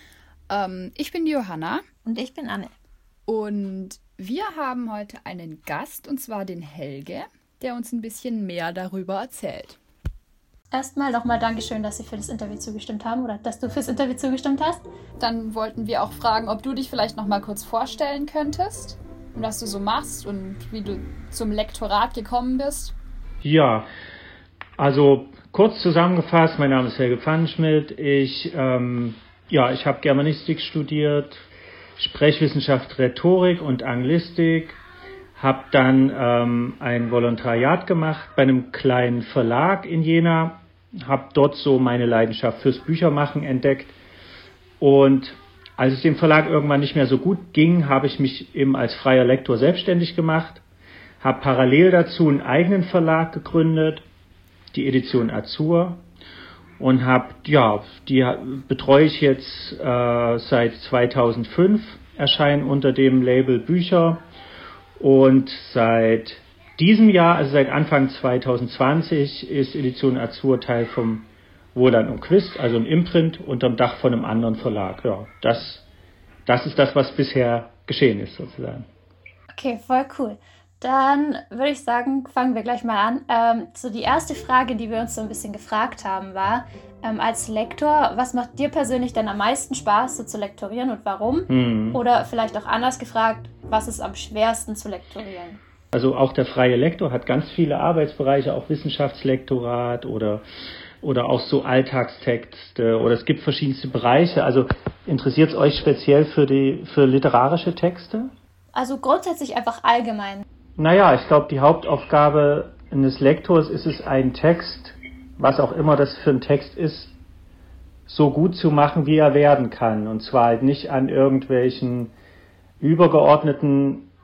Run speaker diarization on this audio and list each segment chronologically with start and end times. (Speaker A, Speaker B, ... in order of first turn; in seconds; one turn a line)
Speaker A: 0.5-1.9
Speaker B: 2.0-2.7
Speaker A: 3.3-9.8
Speaker B: 10.7-14.8
Speaker A: 15.2-22.9
Speaker C: 23.4-23.9
Speaker C: 24.8-31.4
Speaker C: 32.0-34.8
Speaker C: 35.4-43.9
Speaker C: 44.8-50.6
Speaker C: 51.2-54.0
Speaker C: 54.7-56.0
Speaker C: 56.8-64.2
Speaker C: 65.0-75.8
Speaker C: 76.5-78.8
Speaker B: 79.5-95.6
Speaker C: 91.5-92.0
Speaker C: 95.9-100.4
Speaker C: 101.0-108.3
Speaker B: 108.7-110.4
Speaker C: 110.8-117.1
Speaker C: 118.1-122.1
Speaker C: 122.8-124.1